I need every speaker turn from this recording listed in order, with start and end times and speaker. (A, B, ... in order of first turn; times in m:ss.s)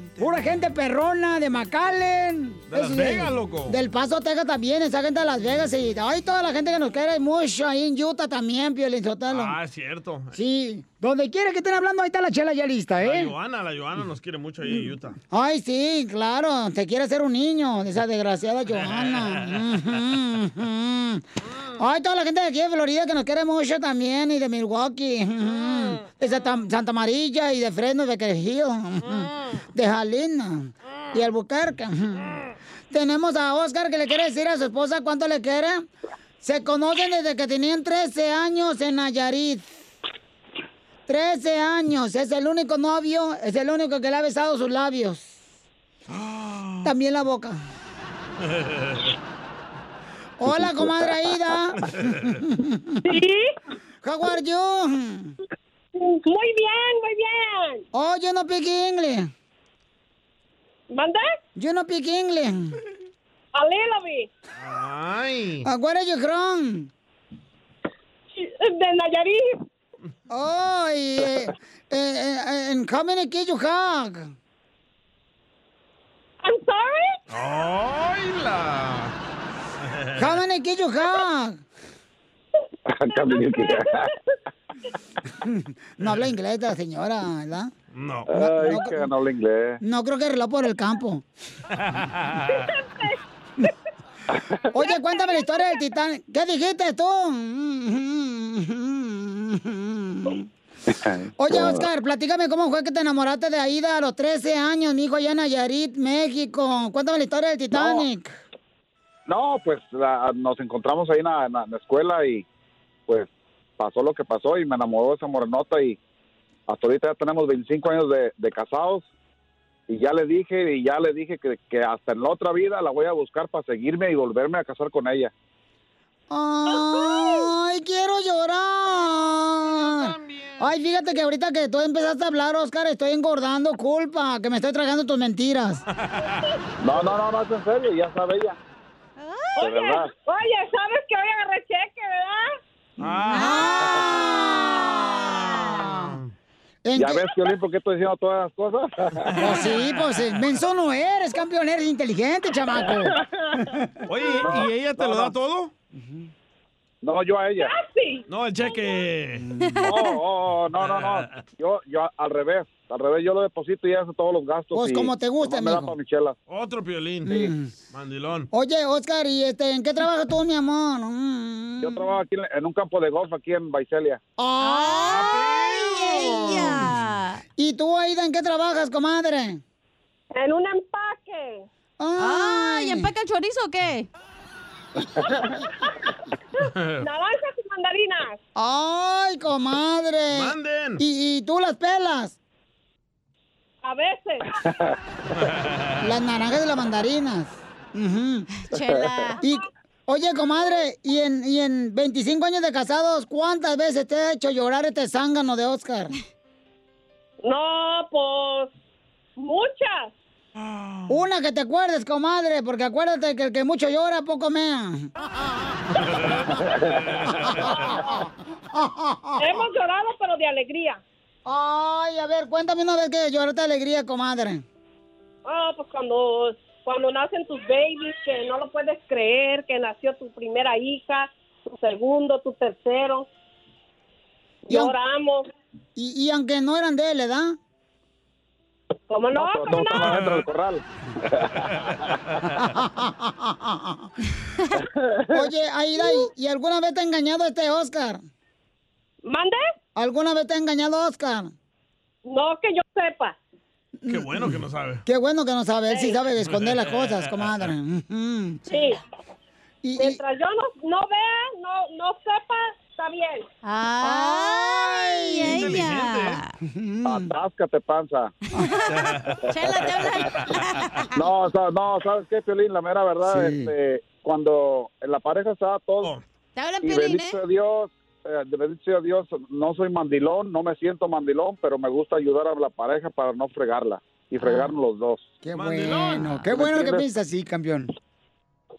0:00.2-0:09.6 A
0:02.7-0:03.8 B
0:09.3-0:10.4 B
0:10.3-0:13.3 A
0:13.0-0:15.2 B
0:15.3-0:21.2 A
0:18.8-0:19.5 B
0:21.8-0:32.4 A
0:29.0-0:29.6 B
0:32.9-0:35.9 A
0:36.4-0:39.7 A
0:41.1-0:45.4 A
0:46.1-0:46.9 B
0:46.8-0:47.6 A
0:48.6-0:49.1 B
0:50.4-0:53.2 A
0:53.0-0:53.5 C
0:54.0-0:55.4 A
0:56.0-0:57.8 C
0:57.9-0:59.3 A
1:00.9-1:01.3 C
1:01.6-1:02.8 A
1:03.5-1:04.3 C
1:04.6-1:05.7 B
1:05.6-1:06.9 A
1:08.3-1:09.6 C
1:10.3-1:14.3 A
1:16.4-1:17.2 C
1:17.3-1:19.1 B
1:19.8-1:20.3 B
1:20.2-1:21.6 A
1:22.9-1:24.0 D
1:23.1-1:24.1 C
1:25.4-1:27.7 A
1:27.9-1:28.3 B
1:28.3-1:29.8 D
1:28.3-1:29.1 A
1:29.8-1:31.2 A
1:31.7-1:32.6 B
1:32.4-1:33.7 C
1:34.7-1:40.4 A
1:34.8-1:35.6 C
1:40.9-1:41.9 D
1:41.4-1:48.3 A
1:47.7-1:48.0 D
1:49.3-1:52.4 D
1:53.1-1:56.0 D
1:56.7-1:59.1 D
1:59.9-2:05.3 D
2:06.3-2:15.8 A
2:06.7-2:07.3 C
2:09.8-2:10.7 B
2:16.0-2:16.3 B
2:16.8-2:18.6 D
2:19.2-2:19.6 E
2:19.6-2:22.6 C
2:19.6-2:20.1 D
2:23.0-2:23.7 B
2:23.3-2:26.1 A
2:23.3-2:25.9 E
2:25.9-2:26.3 B
2:26.8-2:27.3 A
2:27.0-2:29.3 D
2:29.3-2:30.2 B
2:29.4-2:33.9 A
2:34.1-2:35.7 B
2:34.4-2:35.3 D
2:36.0-2:36.2 A
2:37.0-2:37.7 D
2:37.6-2:39.0 C
2:38.3-2:39.5 B
2:39.6-2:40.1 E
2:39.8-2:46.4 D
2:40.8-2:41.4 B
2:44.7-2:45.9 A
2:46.5-2:48.5 B
2:47.2-2:47.7 A
2:48.5-2:52.0 A
2:51.8-2:54.2 D
2:54.4-2:55.3 A
2:54.6-2:57.4 E
2:55.1-2:55.9 B
2:55.9-2:56.9 A
2:57.6-2:59.6 A
3:00.3-3:01.6 C
3:02.0-3:03.1 A
3:02.2-3:04.1 E
3:05.6-3:06.0 C
3:06.6-3:08.4 C
3:08.6-3:12.3 A
3:10.3-3:11.0 B
3:13.8-3:14.6 C
3:15.4-3:15.9 B
3:16.0-3:18.5 A
3:18.6-3:19.4 E
3:19.4-3:26.1 A
3:27.4-3:28.7 C
3:29.4-3:30.1 C
3:30.6-3:31.1 B
3:31.1-3:35.1 A
3:36.1-3:36.5 B
3:37.0-3:37.7 B
3:37.5-3:39.4 A
3:39.4-3:41.0 C
3:41.4-3:44.6 A
3:45.4-3:53.3 C
3:54.7-3:55.5 C
3:56.0-3:57.6 A
3:59.1-4:00.2 C
3:59.4-4:02.1 D
4:00.0-4:00.4 B
4:02.6-4:04.1 A
4:05.3-4:08.2 A
4:09.2-4:09.6 C
4:10.0-4:11.5 A
4:12.2-4:13.4 C
4:14.0-4:18.6 A
4:14.1-4:15.0 B
4:15.9-4:16.1 C
4:16.4-4:17.6 B
4:18.7-4:19.0 C
4:19.8-4:20.2 A
4:20.0-4:23.4 C
4:23.6-4:26.5 E
4:24.0-4:25.7 A
4:25.4-4:26.4 B
4:26.6-4:27.3 A
4:27.0-4:28.3 D
4:28.5-4:31.1 E
4:29.0-4:29.4 B
4:31.1-4:36.1 D
4:33.2-4:33.7 A
4:36.5-4:37.4 E
4:36.8-4:45.3 D
4:45.4-4:47.9 A
4:45.5-4:46.2 B
4:46.0-4:46.6 E
4:46.6-4:47.0 D